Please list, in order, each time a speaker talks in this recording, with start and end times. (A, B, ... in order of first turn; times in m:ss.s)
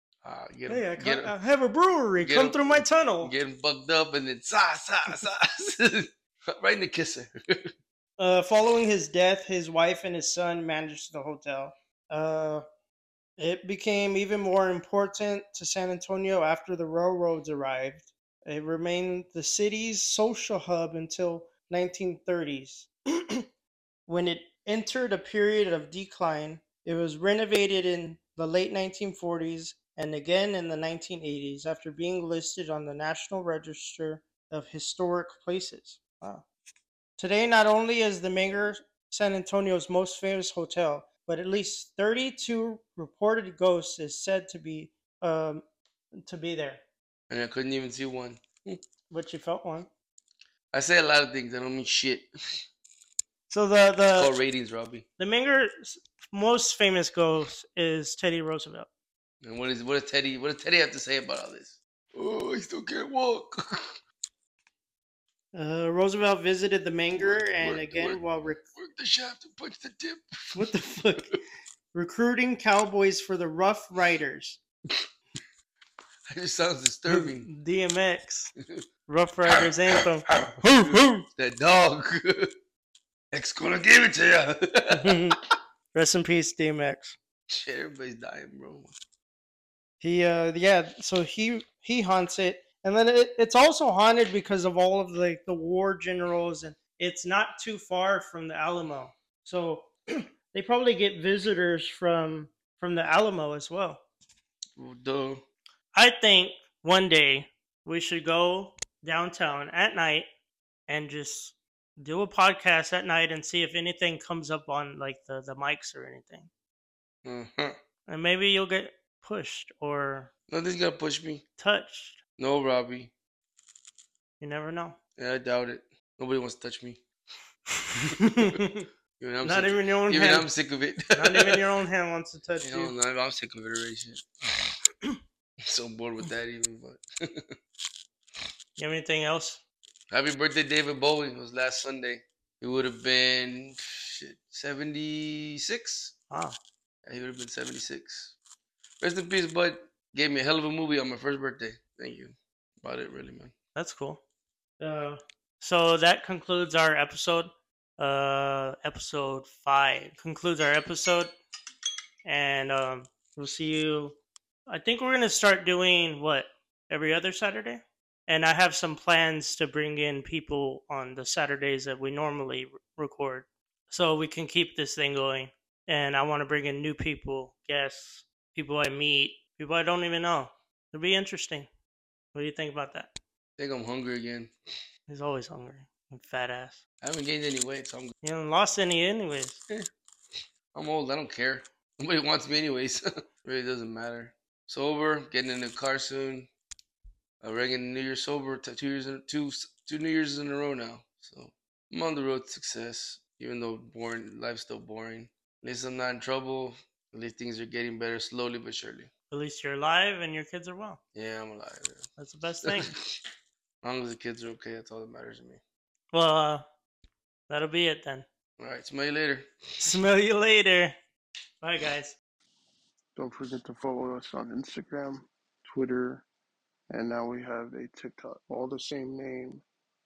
0:00.2-0:01.4 A
0:00.7-0:03.3 B
0:02.2-0:07.7 A
0:08.2-0:12.6 B
0:13.4-0:23.5 B
0:24.1-0:36.4 B
0:37.2-0:45.6 B
0:46.2-0:46.8 B
0:47.3-0:48.8 A
0:49.1-0:49.9 B
0:50.7-0:52.3 A
0:53.5-0:54.4 B
0:54.2-0:55.1 A
0:55.2-0:58.9 B
0:59.4-1:04.0 A
1:05.5-1:08.6 B
1:07.2-1:10.7 A
1:10.6-1:11.4 B
1:11.9-1:14.6 B
1:16.3-1:17.5 A
1:17.1-1:18.5 B
1:19.1-1:21.3 B
1:19.5-1:22.5 A
1:23.3-1:25.4 A
1:24.9-1:25.4 B
1:25.9-1:27.2 B
1:27.5-1:29.0 A
1:30.0-1:44.0 B
1:44.8-1:45.4 A
1:45.9-1:50.3 B
1:50.9-1:56.5 B
1:57.2-1:57.8 A
1:58.1-2:00.3 B
2:00.5-2:01.4 A
2:01.6-2:02.2 B
2:02.4-2:03.1 A
2:04.4-2:05.0 B
2:05.2-2:07.0 A
2:07.9-2:08.9 B
2:09.2-2:11.6 A
2:09.4-2:10.5 B
2:11.1-2:12.9 B
2:12.6-2:14.2 A
2:15.7-2:17.6 A
2:18.8-2:19.6 B
2:20.1-2:26.2 A
2:26.3-2:26.6 B
2:27.0-2:28.4 A
2:29.0-2:33.5 A
2:33.8-2:34.2 B
2:34.8-2:41.3 B
2:42.3-3:01.7 B
3:02.3-3:03.1 B
3:03.6-3:04.5 A
3:05.1-3:06.8 B
3:07.0-3:08.1 A
3:08.2-3:09.6 B
3:10.7-3:16.5 A
3:17.4-3:29.1 A
3:29.3-3:31.0 B
3:31.2-3:32.1 A
3:32.2-3:32.9 B
3:32.6-3:33.2 A
3:33.8-3:35.6 A
3:36.1-3:36.6 B
3:37.5-3:38.3 B
3:38.6-3:39.5 A
3:39.8-3:41.0 B
3:41.6-3:42.2 B
3:43.2-3:46.2 C
3:46.9-3:49.6 C